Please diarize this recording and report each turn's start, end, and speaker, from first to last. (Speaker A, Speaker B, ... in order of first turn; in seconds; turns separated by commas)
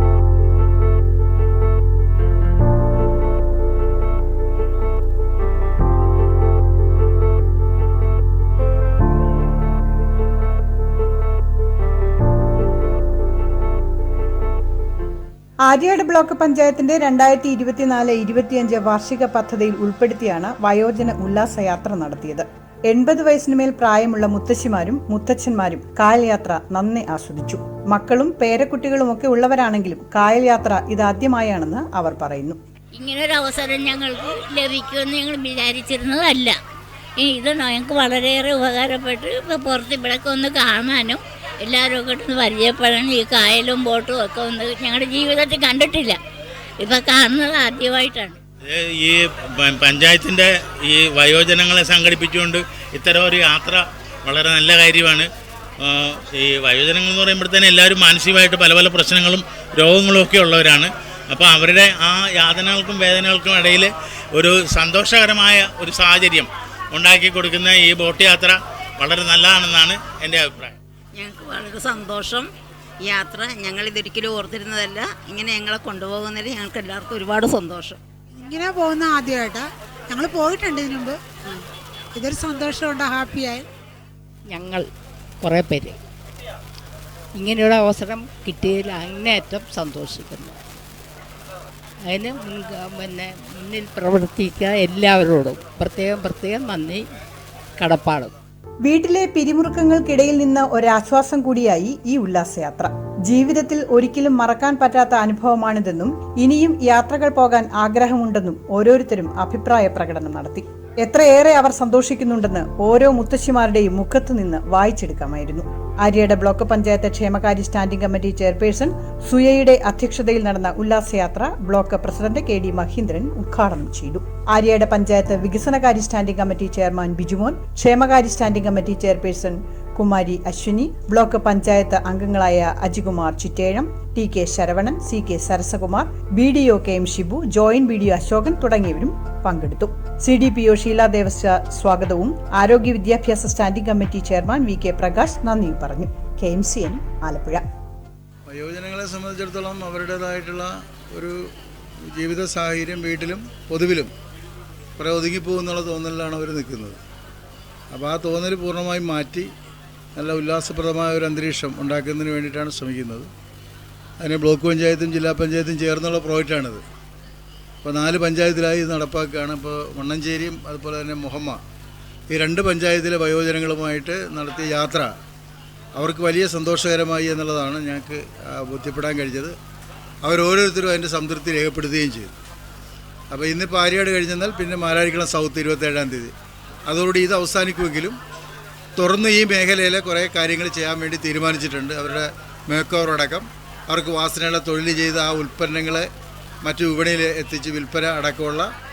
Speaker A: 15.7-32.6, Speaker B: 33.0-36.6, Speaker B: 37.2-46.2, Speaker B: 46.8-48.4, Speaker C: 48.6-55.3, Speaker C: 55.8-70.8, Speaker D: 71.1-72.5, Speaker D: 73.0-78.0, Speaker E: 78.4-81.2, Speaker E: 82.2-83.7, Speaker F: 84.5-84.9, Speaker F: 85.4-86.0, Speaker F: 87.4-90.6, Speaker F: 92.1-97.1, Speaker F: 97.8-98.3, Speaker A: 98.8-147.6, Speaker G: 148.5-151.5, Speaker G: 152.0-154.1, Speaker G: 155.0-157.0, Speaker G: 157.9-159.5, Speaker G: 160.2-163.3, Speaker G: 164.2-166.8, Speaker G: 167.8-171.6, Speaker G: 172.3-175.1, Speaker G: 176.0-179.6, Speaker G: 180.2-182.3, Speaker G: 183.3-186.3, Speaker G: 186.9-188.2, Speaker G: 189.0-196.1, Speaker G: 196.6-198.7